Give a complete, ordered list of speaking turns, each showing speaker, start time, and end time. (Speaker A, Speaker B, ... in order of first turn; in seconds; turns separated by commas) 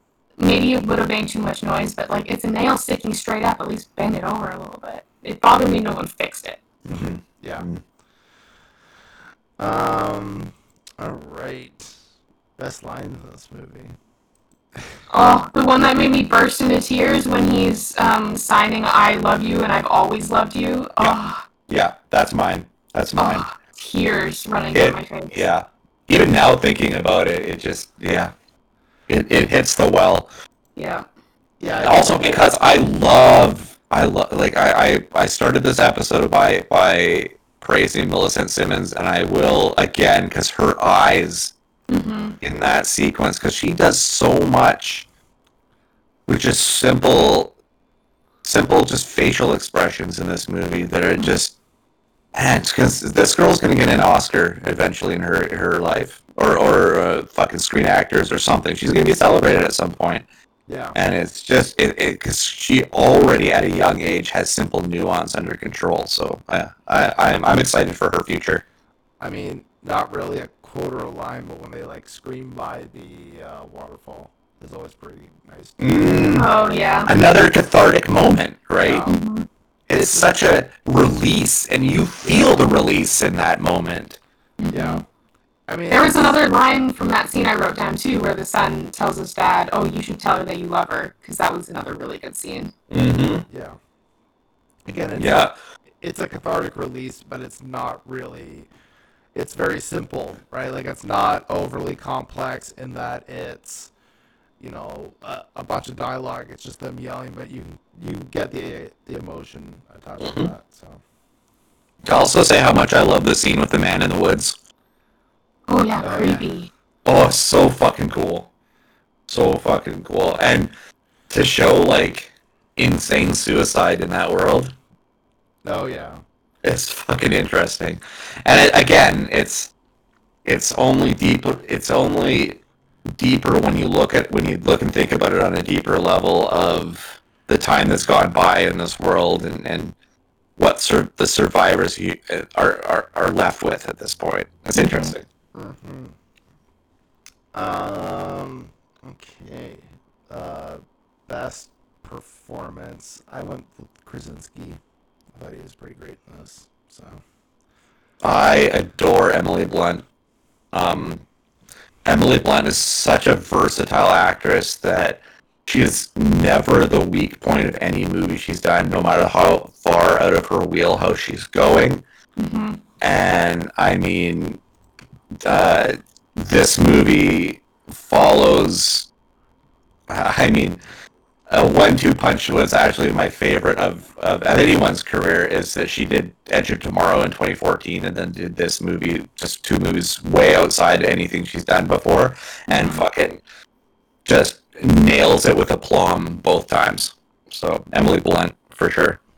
Speaker A: 0.4-6.6, Speaker B: 6.8-7.7, Speaker C: 6.9-7.8, Speaker B: 9.6-12.0, Speaker B: 12.6-13.9, Speaker A: 15.1-21.4, Speaker C: 21.7-23.5, Speaker A: 23.2-25.4, Speaker C: 24.7-28.3, Speaker C: 29.1-30.3, Speaker A: 30.8-31.0, Speaker B: 31.6-32.4, Speaker C: 31.8-41.5, Speaker A: 41.9-42.4, Speaker C: 42.4-45.1, Speaker C: 46.3-47.5, Speaker C: 48.4-51.5, Speaker C: 52.3-60.2, Speaker B: 60.7-61.0, Speaker C: 60.9-68.6, Speaker B: 69.2-76.3, Speaker C: 75.8-76.5, Speaker A: 76.3-77.1, Speaker C: 77.0-79.0, Speaker B: 78.8-79.1, Speaker A: 79.0-79.5, Speaker C: 79.9-84.2, Speaker A: 84.6-85.0, Speaker B: 84.7-85.0, Speaker B: 85.7-86.3, Speaker A: 85.9-92.7, Speaker C: 92.9-93.5, Speaker B: 93.5-93.8, Speaker B: 94.8-95.5, Speaker C: 95.2-95.5, Speaker B: 96.0-98.7, Speaker B: 99.3-103.9, Speaker B: 104.6-111.0, Speaker C: 110.2-110.5, Speaker C: 112.0-114.5, Speaker A: 115.7-116.7, Speaker B: 116.0-116.5, Speaker C: 117.0-118.5, Speaker C: 119.3-120.7, Speaker C: 121.3-124.7, Speaker B: 125.6-126.2, Speaker C: 126.6-129.7, Speaker C: 130.4-132.6, Speaker C: 133.1-139.9, Speaker C: 140.6-145.2, Speaker A: 144.8-145.1, Speaker B: 145.5-146.1, Speaker B: 147.5-154.8, Speaker B: 155.3-157.2, Speaker C: 158.2-160.0, Speaker C: 160.7-161.2, Speaker C: 162.0-172.0, Speaker A: 172.4-172.8, Speaker C: 173.0-174.6, Speaker C: 175.4-179.1, Speaker C: 180.1-180.8, Speaker C: 181.5-193.4, Speaker A: 192.7-193.0, Speaker C: 194.2-199.2